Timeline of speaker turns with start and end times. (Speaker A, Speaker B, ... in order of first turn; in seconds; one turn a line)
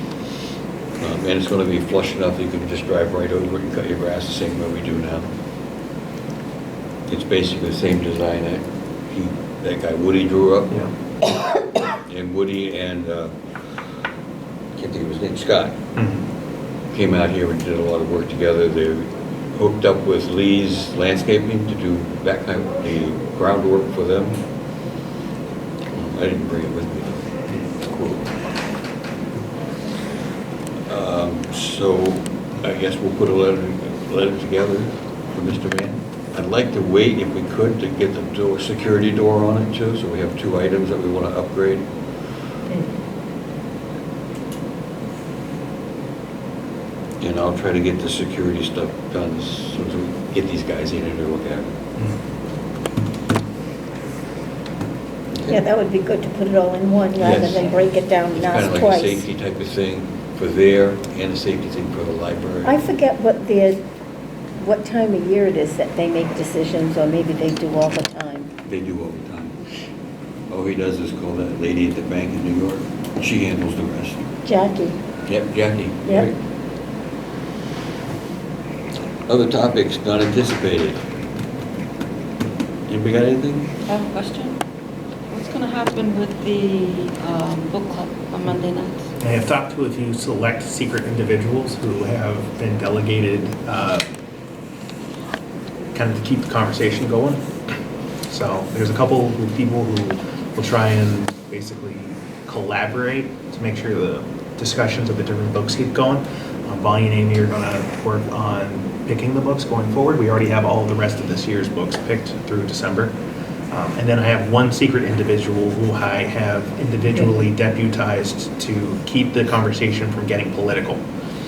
Speaker A: 1.0-5.3
Speaker A: 7.1-10.8
Speaker A: 12.1-13.4
Speaker A: 14.8-15.8
Speaker B: 16.0-16.3
Speaker A: 16.9-24.4
Speaker A: 25.9-28.3
Speaker A: 30.9-41.9
Speaker A: 47.2-51.7
Speaker A: 55.3-55.6
Speaker C: 55.5-59.2
Speaker A: 57.2-57.8
Speaker A: 58.3-62.8
Speaker C: 62.6-63.8
Speaker C: 64.6-68.5
Speaker A: 68.7-69.6
Speaker A: 70.5-74.3
Speaker C: 74.4-75.0
Speaker A: 75.3-76.4
Speaker A: 79.3-81.0
Speaker A: 82.9-83.7
Speaker D: 83.9-84.6
Speaker D: 85.3-89.1
Speaker B: 89.2-94.0
Speaker B: 95.9-97.5
Speaker B: 98.3-113.2
Speaker B: 113.7-121.0